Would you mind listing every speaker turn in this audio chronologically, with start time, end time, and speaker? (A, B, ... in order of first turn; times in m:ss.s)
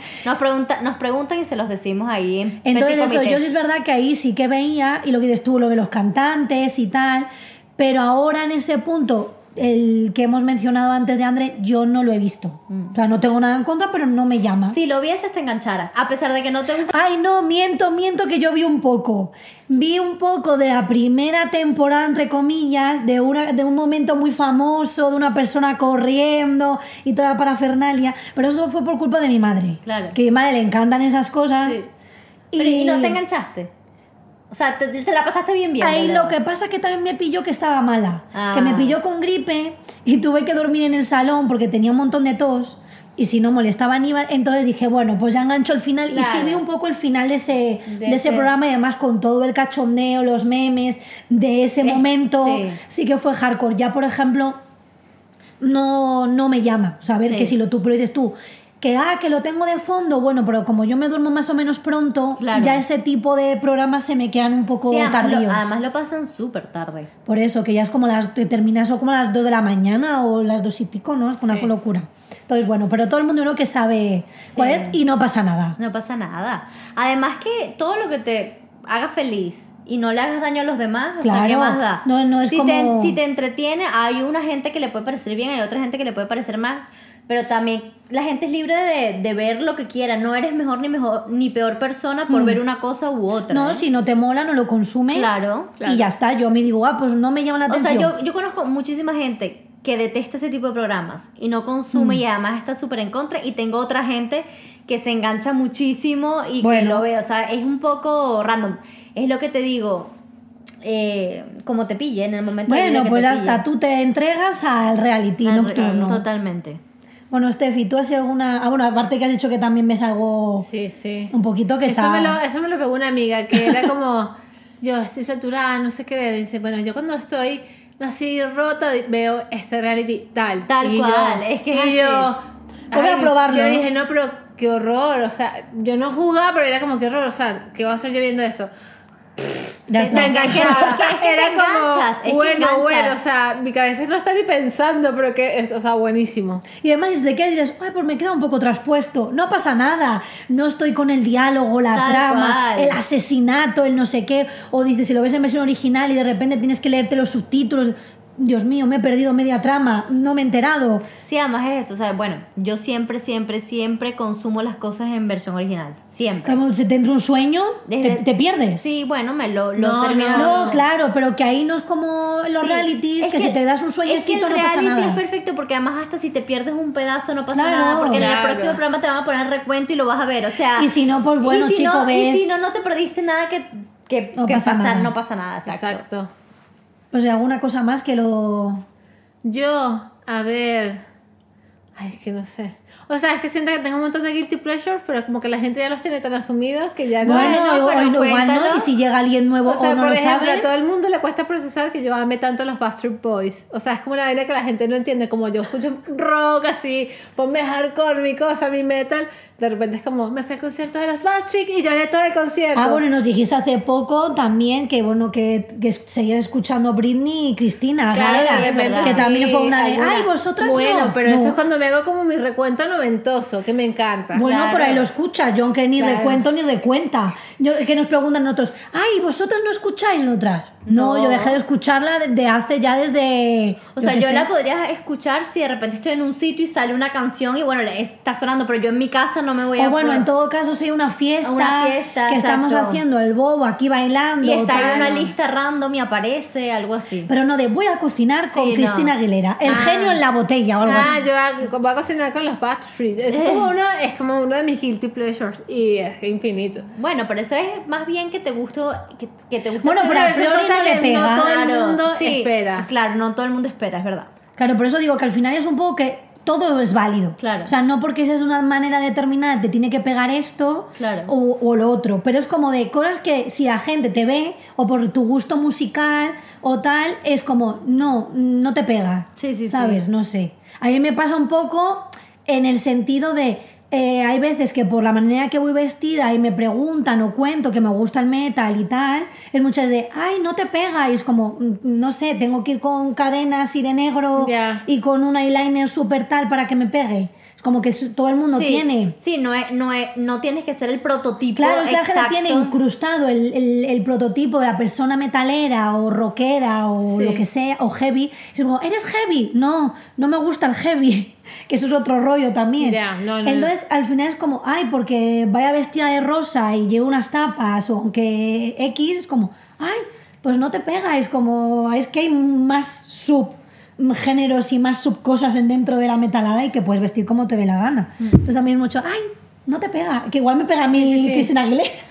0:00.2-0:03.4 A
0:02.6-0:14.8 B
0:14.7-0:16.9 A
0:16.9-0:31.9 B
0:29.8-0:30.2 A
0:32.5-0:33.2 B
0:32.6-0:33.7 A
0:34.5-0:36.4 A
0:35.8-0:54.6 B
0:38.3-0:39.0 A
0:46.1-0:46.6 A
0:47.9-0:48.5 A
0:51.8-0:52.8 A
0:55.6-1:05.7 B
0:57.2-0:57.5 A
1:02.4-1:02.8 A
1:04.8-1:07.1 A
1:07.2-1:15.8 B
1:11.4-1:11.7 C
1:14.5-1:15.0 A
1:15.8-1:33.8 A
1:21.2-1:23.2 B
1:32.3-1:32.6 B
1:33.5-1:38.1 B
1:35.1-1:35.8 A
1:35.8-1:36.1 C
1:37.7-1:50.1 A
1:41.9-1:42.2 B
1:46.6-1:47.0 B
1:50.8-1:53.6 A
1:52.6-1:56.2 B
1:55.4-1:56.8 A
1:57.3-2:00.7 B
2:00.6-2:01.3 C
2:01.3-2:02.4 B
2:01.9-2:18.7 C
2:03.5-2:03.8 B
2:10.7-2:12.3 A
2:12.9-2:13.8 B
2:19.4-2:26.6 C
2:19.9-2:21.0 B
2:20.0-2:23.2 A
2:26.8-2:41.0 B
2:31.9-2:33.0 A
2:41.2-2:46.6 A
2:46.4-2:48.9 B
2:47.9-2:50.8 A
2:49.8-2:50.8 C
2:50.4-2:55.2 B
2:52.6-3:00.9 A
2:57.5-2:58.3 B
2:58.1-2:58.8 C
3:00.8-3:02.6 B
3:01.4-3:06.0 A
3:04.3-3:05.1 B
3:05.7-3:06.3 C
3:07.1-3:08.8 B
3:09.4-3:11.0 C
3:12.0-3:17.6 C
3:17.2-3:20.7 B
3:17.2-3:18.9 A
3:19.6-3:33.0 C
3:32.7-3:41.6 B
3:38.1-3:44.5 C
3:38.2-3:39.3 A
3:44.3-3:54.5 B
3:44.4-3:45.0 A
3:46.0-3:46.4 C
3:50.8-3:51.6 A
3:54.0-4:00.3 A
3:59.8-4:05.1 B
4:01.4-4:03.0 A
4:04.4-4:07.3 A
4:04.7-4:05.3 C
4:07.3-4:11.2 B
4:08.5-4:09.1 A
4:09.6-4:10.2 C
4:10.8-4:16.9 C
4:10.9-4:11.2 A
4:13.3-4:13.6 A
4:16.9-4:20.6 A
4:19.8-4:21.5 B
4:20.0-4:22.9 C
4:21.2-4:24.3 A
4:24.6-4:59.1 B
4:27.4-4:27.7 A
4:31.0-4:31.3 A
4:39.4-4:40.0 A
4:54.4-4:54.8 C
4:58.5-5:02.7 A
5:01.6-5:32.0 B
5:07.0-5:07.4 C
5:12.8-5:13.7 C
5:30.9-5:31.5 C